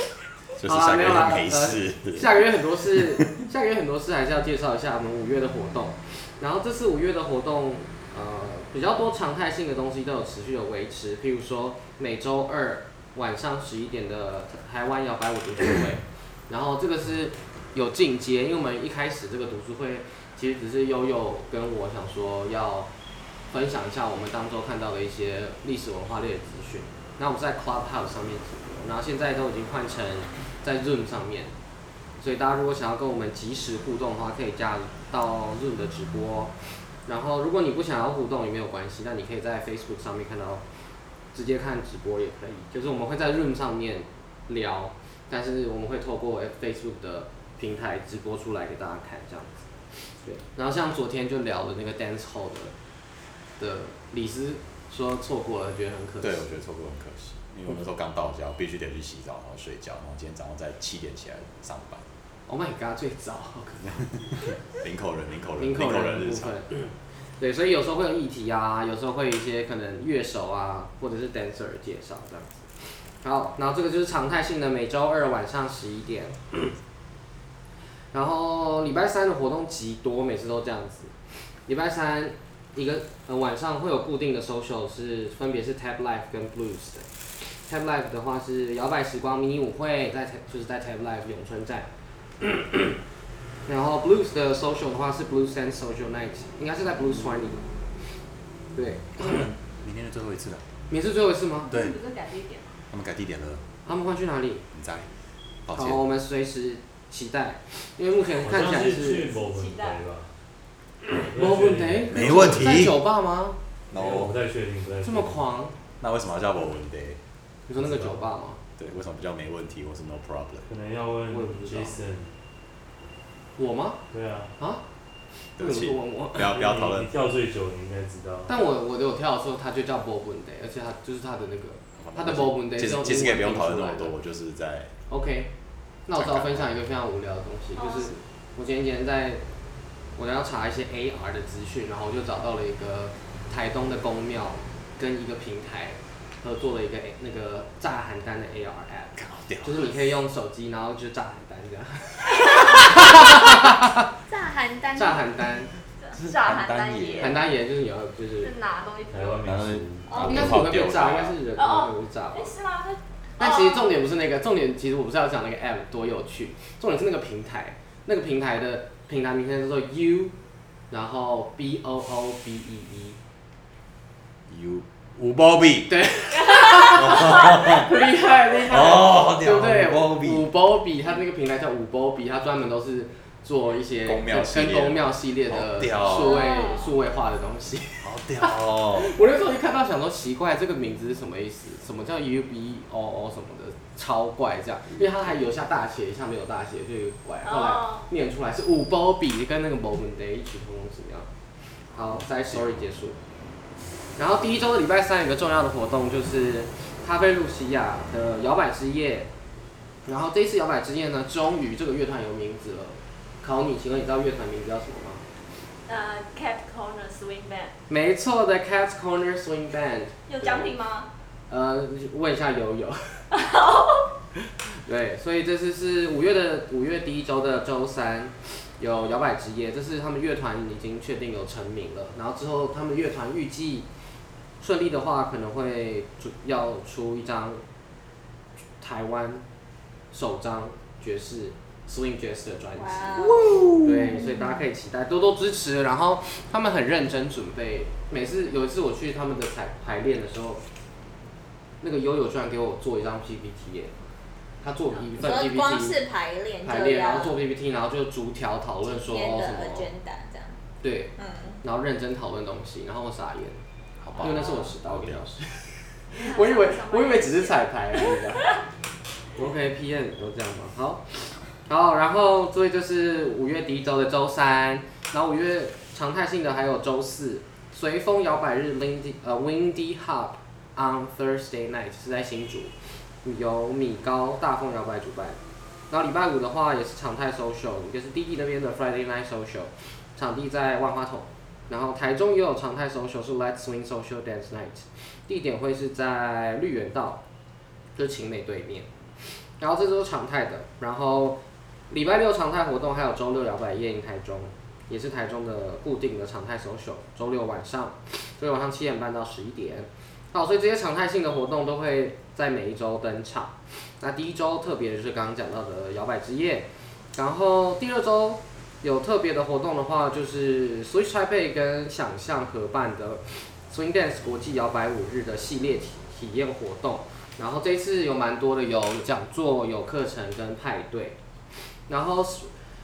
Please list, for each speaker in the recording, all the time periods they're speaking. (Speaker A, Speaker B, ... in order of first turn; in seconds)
Speaker A: 0.6-2.4, 2.9-3.3, 56.2-62.0, 64.0-66.5, 99.2-100.7, 101.7-102.0, 102.9-103.6, 104.7-105.1, 105.6-106.0, 112.1-113.0, 113.9-114.4, 116.0-117.2, 117.8-118.2, 118.8-120.7, 125.6-127.1, 132.0-134.9, 136.2-136.7, 149.2-149.9, 156.1-157.4, 159.4-161.4, 174.5-175.9, 176.9-177.9, 178.6-180.5, 184.0-186.4, 188.0-189.1, 264.0-265.2
Speaker B: 0.6-22.9, 23.5-31.5, 32.2-36.5, 37.0-40.6, 41.3-52.7, 53.6-56.5, 62.5-64.1, 65.6-76.7, 78.1-81.1, 81.7-91.9, 92.4-93.0, 93.7-97.6, 98.7-99.5, 100.9-101.7, 103.8-104.6, 105.7-109.3, 111.0-113.6, 115.0-115.8, 117.7-118.6, 121.3-121.9, 123.6-124.0, 125.6-126.5, 128.5-134.1, 135.1-135.5, 136.1-139.4, 140.2-154.0, 154.9-155.7, 157.2-158.5, 160.2-162.5, 163.4-170.3, 170.9-173.2, 175.9-201.3, 201.9-203.2, 204.2-209.3, 210.1-215.2, 217.9-220.8, 221.5-223.2, 224.8-233.9, 234.6-237.6, 238.8-239.4, 240.1-243.2, 243.8-250.6, 251.8-253.9, 254.6-256.0, 256.6-259.9, 260.8-263.6, 264.2-268.5, 269.4-285.4, 285.9-297.2, 297.9-331.2, 331.9-332.5
Speaker C: 101.6-102.8, 109.0-110.0, 137.7-138.1, 152.6-152.9, 156.0-157.4, 158.4-159.5, 161.6-163.8, 176.5-177.5, 197.4-198.1, 215.8-217.8, 220.3-221.1, 223.3-224.1, 264.2-264.6, 266.1-268.6
Speaker D: 108.4-110.3, 111.2-112.8, 113.9-115.4, 120.7-122.3, 124.1-124.5, 126.4-128.5, 159.1-160.5
Speaker E: 154.3-155.2, 160.1-160.4, 186.1-186.9, 242.8-243.8, 255.2-257.4, 258.8-260.6, 261.1-261.6